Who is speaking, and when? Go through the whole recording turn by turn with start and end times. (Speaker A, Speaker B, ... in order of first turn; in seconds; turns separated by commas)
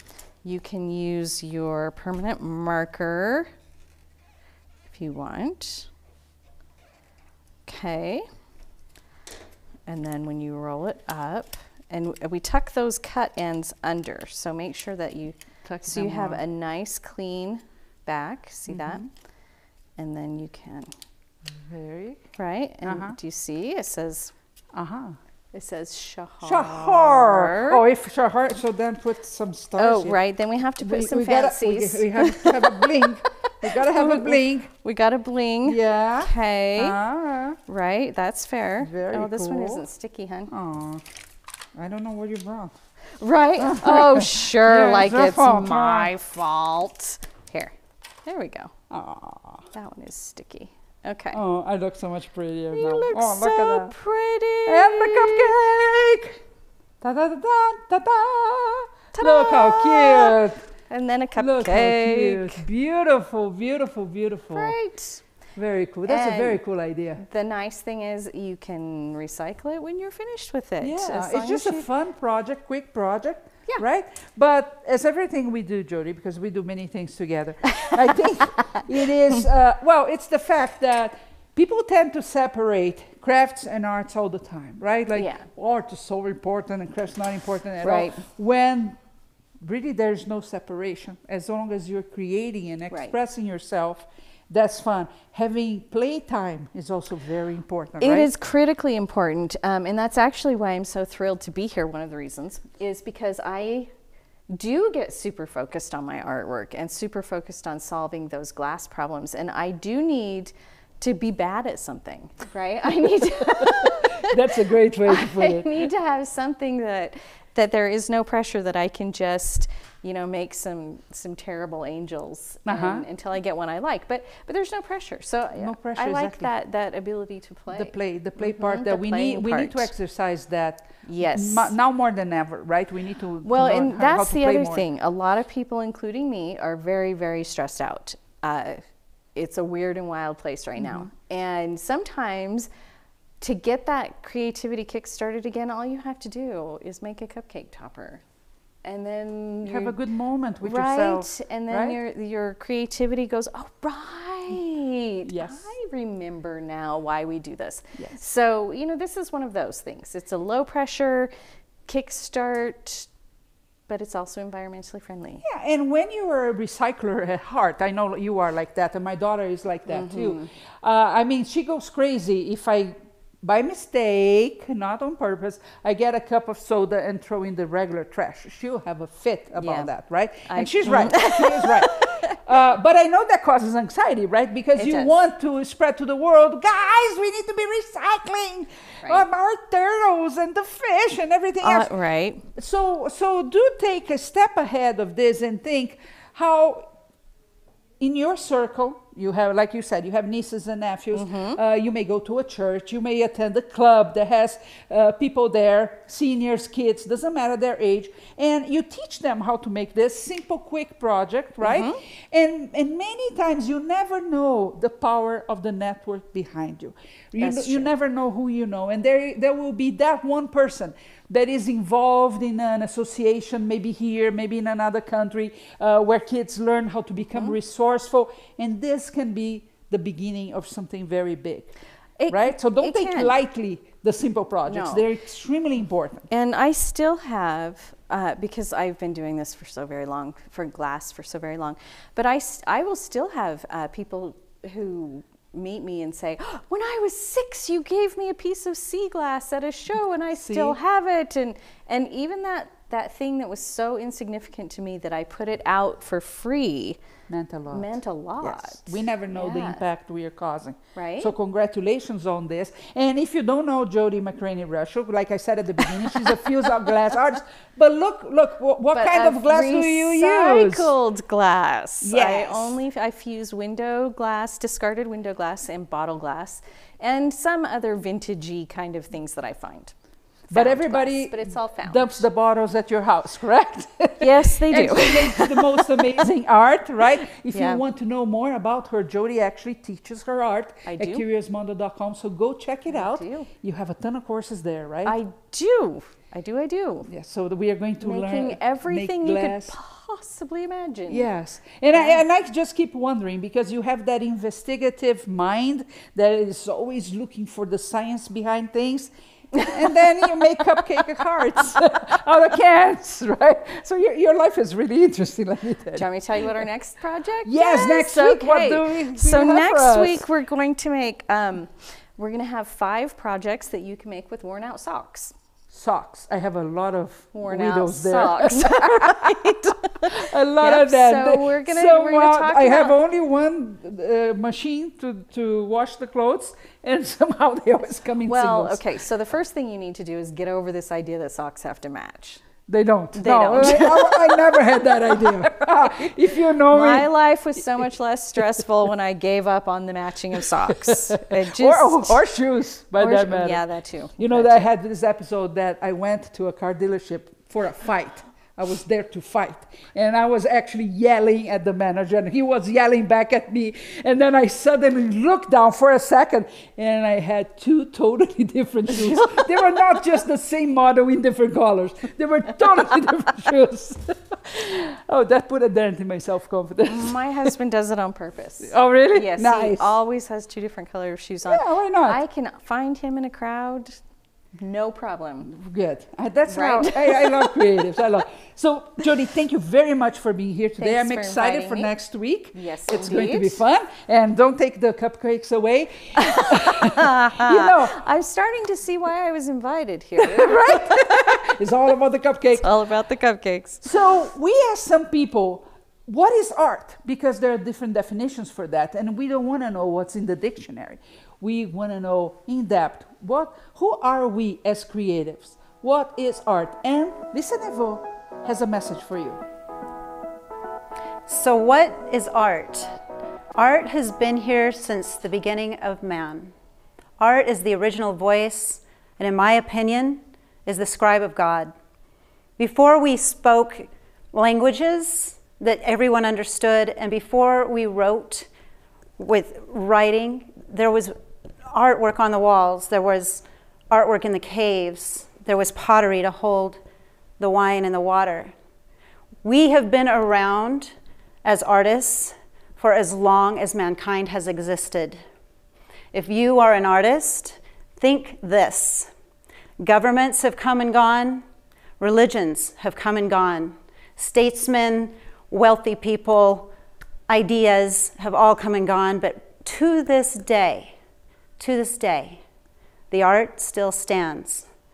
Speaker A: 0.4-3.5, Speaker A: 4.9-5.9, Speaker A: 7.7-8.3, Speaker A: 9.9-19.1, Speaker B: 15.7-16.4, Speaker B: 18.7-19.1, Speaker A: 20.0-20.9, Speaker B: 21.6-22.2, Speaker A: 22.4-24.3, Speaker B: 22.9-23.2, Speaker B: 24.7-25.2, Speaker A: 25.5-27.8, Speaker B: 26.4-30.2, Speaker A: 29.8-37.0, Speaker B: 30.8-34.7, Speaker B: 35.6-37.6, Speaker A: 37.7-40.5, Speaker B: 38.8-39.8, Speaker B: 40.5-41.0, Speaker B: 41.8-42.7, Speaker A: 43.2-47.7, Speaker B: 43.6-46.1, Speaker A: 48.3-48.7, Speaker B: 48.9-49.7, Speaker A: 49.7-51.4, Speaker B: 51.3-54.0, Speaker A: 52.7-55.6, Speaker B: 54.7-56.4, Speaker B: 57.0-60.6, Speaker A: 59.1-60.4, Speaker A: 60.9-62.6, Speaker B: 61.4-64.8, Speaker A: 64.5-65.2, Speaker B: 65.6-67.2, Speaker A: 66.1-66.6, Speaker A: 67.2-71.9, Speaker B: 70.8-89.0, Speaker A: 85.1-85.5, Speaker A: 87.8-88.2, Speaker B: 89.6-98.3, Speaker A: 92.9-93.2, Speaker A: 98.0-103.9, Speaker A: 104.5-114.4, Speaker B: 113.4-115.9, Speaker A: 115.1-129.9, Speaker B: 122.7-123.0, Speaker B: 125.6-126.5, Speaker B: 127.7-134.8, Speaker A: 131.1-131.7, Speaker A: 133.4-138.8, Speaker A: 139.3-142.7, Speaker B: 140.8-141.1, Speaker A: 143.4-148.2, Speaker A: 148.8-150.0, Speaker B: 149.6-152.0, Speaker A: 150.6-161.3, Speaker B: 155.3-155.7, Speaker A: 161.9-163.1, Speaker A: 163.9-165.4, Speaker B: 165.4-191.9, Speaker A: 169.9-170.5, Speaker A: 179.6-179.9, Speaker A: 180.5-182.4, Speaker A: 184.8-185.2, Speaker A: 191.6-192.4, Speaker B: 192.6-196.9, Speaker B: 198.0-231.8, Speaker A: 201.1-201.6, Speaker A: 211.6-212.0, Speaker A: 217.4-217.9, Speaker A: 232.2-233.4, Speaker B: 232.3-236.3, Speaker A: 234.7-235.1, Speaker A: 236.3-257.0, Speaker B: 250.4-250.8, Speaker B: 257.3-270.9, Speaker A: 257.7-259.8, Speaker A: 261.0-261.3, Speaker A: 268.9-279.9, Speaker B: 272.0-272.8, Speaker A: 280.5-282.3, Speaker B: 280.5-295.2, Speaker A: 284.2-286.0, Speaker A: 287.5-287.8, Speaker A: 290.9-291.2, Speaker A: 292.9-293.5, Speaker A: 295.1-297.1, Speaker B: 297.1-299.8, Speaker A: 298.0-301.3, Speaker B: 301.1-316.1, Speaker A: 301.9-302.2, Speaker A: 315.9-325.3, Speaker B: 317.4-320.2, Speaker B: 325.7-338.8, Speaker A: 327.3-333.0, Speaker A: 338.2-342.4, Speaker B: 342.7-347.1, Speaker A: 343.1-344.4, Speaker A: 345.3-346.1, Speaker A: 346.7-352.2, Speaker B: 350.7-353.6, Speaker A: 353.0-354.7, Speaker B: 354.2-377.5, Speaker A: 376.9-384.0, Speaker B: 378.6-379.9, Speaker B: 381.5-382.2, Speaker A: 384.5-385.5, Speaker B: 385.4-398.0, Speaker A: 386.5-387.8, Speaker A: 390.8-391.9, Speaker A: 392.5-393.6, Speaker A: 396.2-401.6, Speaker B: 400.2-402.7, Speaker A: 402.6-403.9, Speaker B: 403.8-419.4, Speaker C: 421.3-422.9, Speaker C: 423.6-426.5, Speaker C: 427.2-431.7, Speaker C: 432.6-438.5, Speaker C: 439.2-441.1, Speaker C: 441.7-446.8, Speaker C: 447.4-448.5, Speaker C: 449.4-450.9, Speaker C: 451.4-455.2, Speaker C: 456.1-459.1, Speaker C: 459.8-461.4, Speaker C: 462.0-466.7, Speaker C: 467.3-470.9, Speaker C: 471.6-472.4, Speaker C: 473.1-474.7